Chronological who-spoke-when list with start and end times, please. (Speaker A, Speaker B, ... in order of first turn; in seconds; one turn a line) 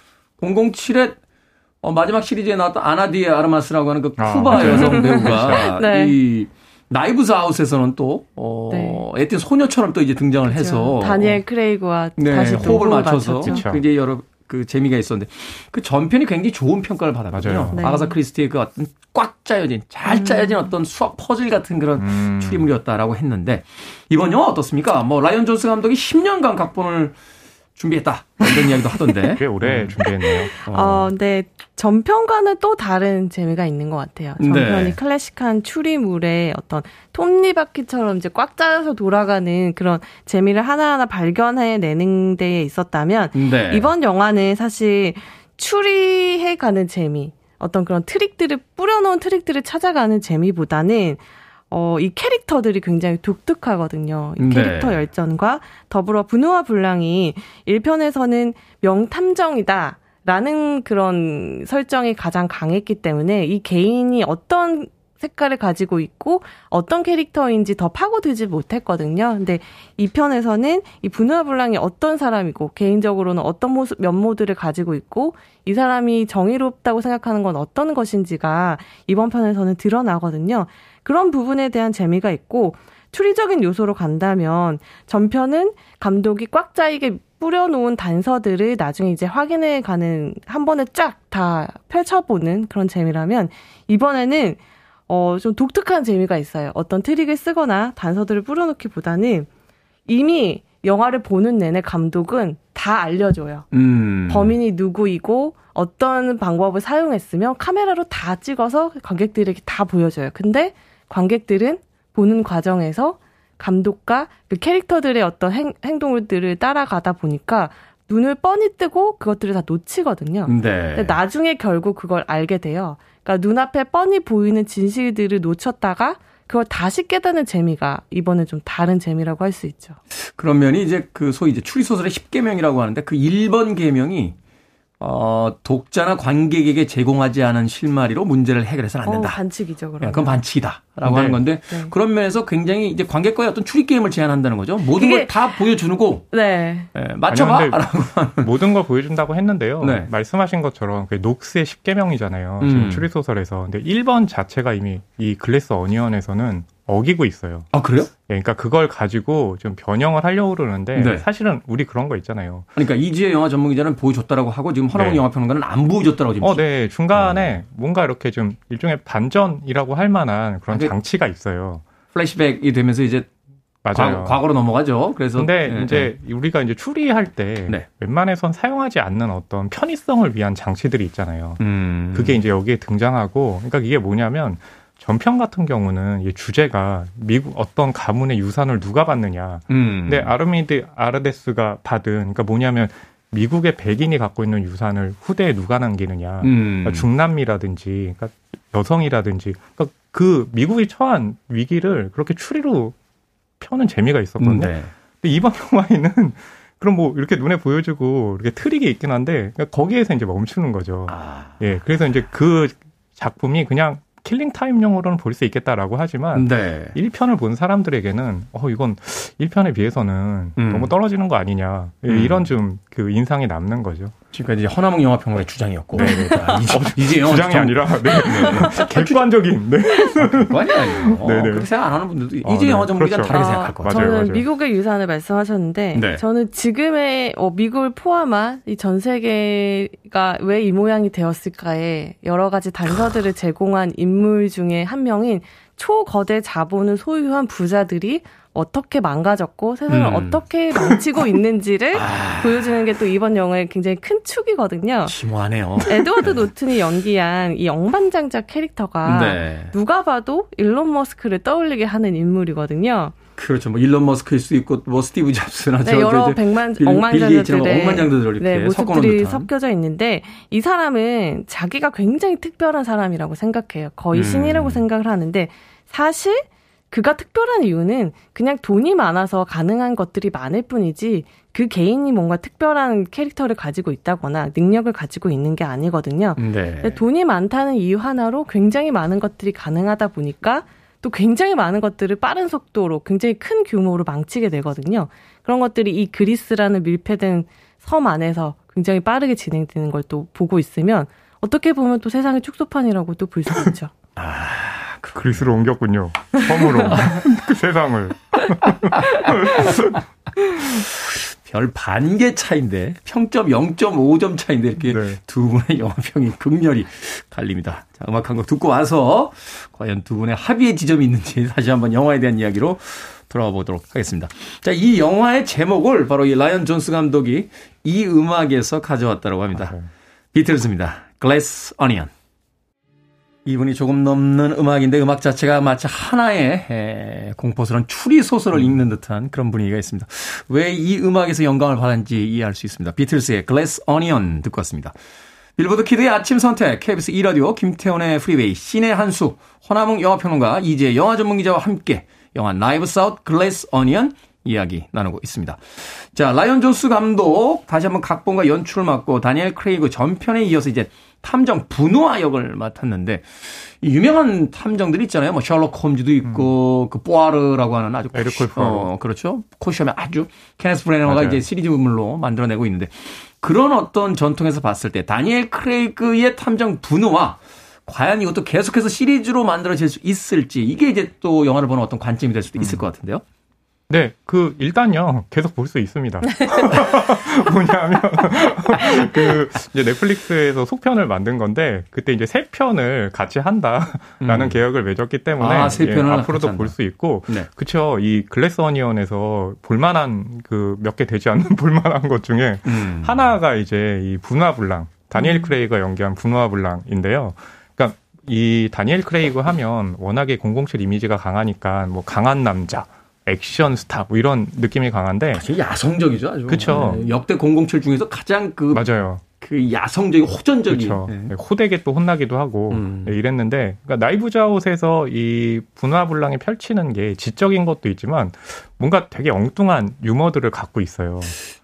Speaker A: 0.4-1.2
Speaker A: 1.8-11.4
Speaker B: 4.2-5.7
Speaker C: 4.6-6.2
Speaker C: 8.7-9.0
Speaker C: 10.5-13.7
Speaker A: 12.2-27.1
Speaker B: 13.4-13.8
Speaker B: 17.3-17.8
Speaker C: 17.7-18.1
Speaker C: 20.1-20.6
Speaker B: 22.0-22.7
Speaker A: 27.8-30.0
Speaker B: 29.4-30.5
Speaker C: 30.3-99.5
Speaker A: 30.7-31.1
Speaker A: 34.4-35.0
Speaker A: 43.3-43.9
Speaker A: 54.4-55.0
Speaker C: 100.1-103.7
Speaker A: 103.7-104.6
Speaker C: 104.3-130.0
Speaker A: 120.5-121.2
Speaker A: 130.1-134.4
Speaker A: 135.0-139.4
Speaker C: 139.1-140.4
Speaker A: 140.0-146.3
Speaker B: 141.1-141.3
Speaker C: 144.9-145.5
Speaker C: 146.3-146.9
Speaker A: 146.9-148.6
Speaker B: 147.3-147.8
Speaker B: 148.4-157.7
Speaker A: 149.8-150.1
Speaker A: 152.6-153.1
Speaker A: 157.7-158.1
Speaker B: 158.3-162.7
Speaker A: 160.9-161.3
Speaker A: 162.8-167.6
Speaker B: 164.9-165.2
Speaker B: 166.4-171.8
Speaker A: 172.1-173.3
Speaker B: 173.8-174.4
Speaker A: 173.9-176.1
Speaker B: 175.3-181.6
Speaker A: 181.6-182.4
Speaker B: 182.1-203.0
Speaker A: 189.7-190.3
Speaker A: 196.4-197.1
Speaker B: 203.6-224.1
Speaker A: 204.4-204.9
Speaker A: 211.1-211.6
Speaker A: 216.3-217.0
Speaker A: 220.6-220.9
Speaker A: 222.1-222.5
Speaker A: 224.3-229.3
Speaker B: 225.9-231.7
Speaker C: 226.0-226.6
Speaker A: 230.2-234.2
Speaker B: 232.4-234.5
Speaker C: 233.3-255.2
Speaker A: 235.9-236.2
Speaker A: 249.9-251.0
Speaker A: 251.9-252.7
Speaker A: 255.1-256.5
Speaker C: 255.8-263.1
Speaker A: 259.0-259.7
Speaker A: 263.4-269.5
Speaker C: 265.8-303.9
Speaker A: 274.1-274.8
Speaker A: 286.4-287.0
Speaker A: 304.2-305.5
Speaker B: 305.1-310.0
Speaker C: 306.4-307.0
Speaker A: 306.9-307.1
Speaker A: 308.9-309.9
Speaker A: 310.7-329.8
Speaker B: 314.8-315.2
Speaker B: 329.6-329.9
Speaker A: 330.3-332.1
Speaker A: 333.5-345.0
Speaker A: 345.6-383.2
Speaker B: 366.2-366.5
Speaker B: 368.1-368.9
Speaker B: 371.1-371.4
Speaker B: 382.6-382.8
Speaker B: 383.9-415.5
Speaker A: 394.2-394.6
Speaker A: 395.4-396.7
Speaker A: 402.6-403.4
Speaker A: 415.3-418.9
Speaker B: 416.5-417.0
Speaker B: 418.7-419.2
Speaker A: 419.4-421.3
Speaker B: 420.7-431.4
Speaker A: 422.7-423.1